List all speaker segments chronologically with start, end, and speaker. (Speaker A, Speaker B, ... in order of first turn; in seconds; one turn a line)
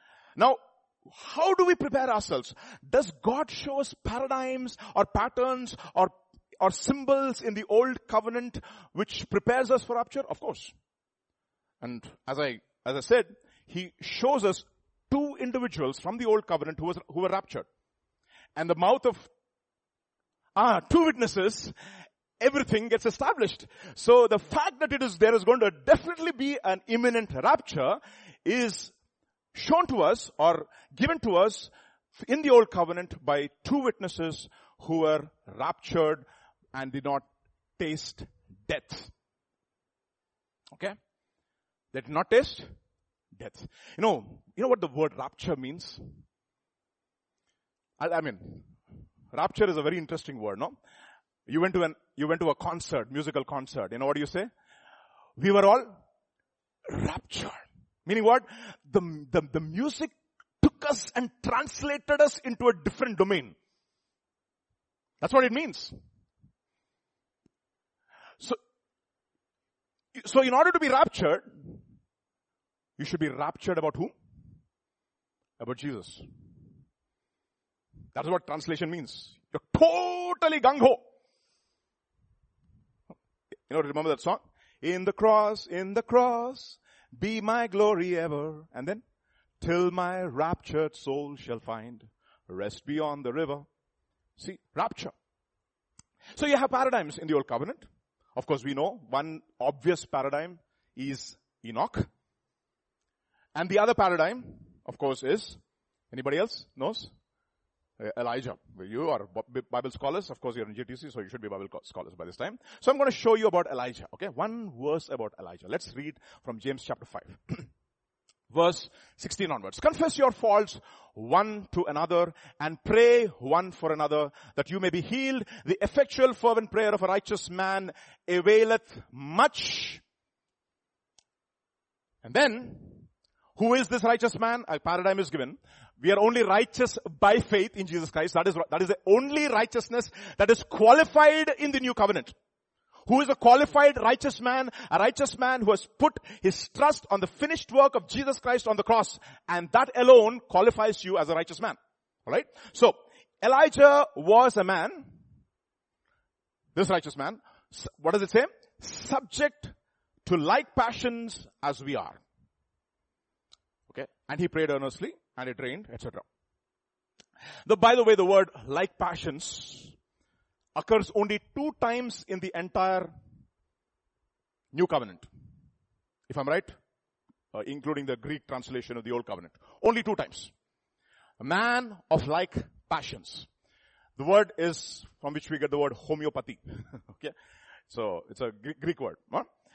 Speaker A: 0.4-10.7
Speaker A: 11.8-17.7
Speaker A: 18.6-19.3
Speaker A: 20.6-21.7
Speaker A: 22.4-28.9
Speaker A: 29.5-37.3
Speaker A: 37.8-39.1
Speaker A: 41.9-42.7
Speaker A: 43.4-46.0
Speaker A: 48.0-48.7
Speaker A: 49.3-50.7
Speaker A: 51.5-54.5
Speaker A: 55.4-56.0
Speaker A: 56.9-63.5
Speaker A: 65.2-65.9
Speaker A: 70.2-71.8
Speaker A: 73.0-74.1
Speaker A: 75.6-76.2
Speaker A: 78.1-81.0
Speaker A: 83.7-89.0
Speaker A: 89.6-93.7
Speaker A: 94.4-95.1
Speaker A: 96.3-102.1
Speaker A: 103.5-105.6
Speaker A: 106.1-107.1
Speaker A: 108.0-117.7
Speaker A: 118.5-130.0
Speaker A: 132.2-142.3
Speaker A: 143.1-155.1
Speaker A: 156.8-159.7
Speaker A: 160.2-162.2
Speaker A: 163.9-166.2
Speaker A: 167.7-169.9
Speaker A: 170.8-173.1
Speaker A: 174.7-175.3
Speaker A: 176.3-176.7
Speaker A: 177.5-180.5
Speaker A: 181.4-183.5
Speaker A: 184.2-187.3
Speaker A: 187.9-189.5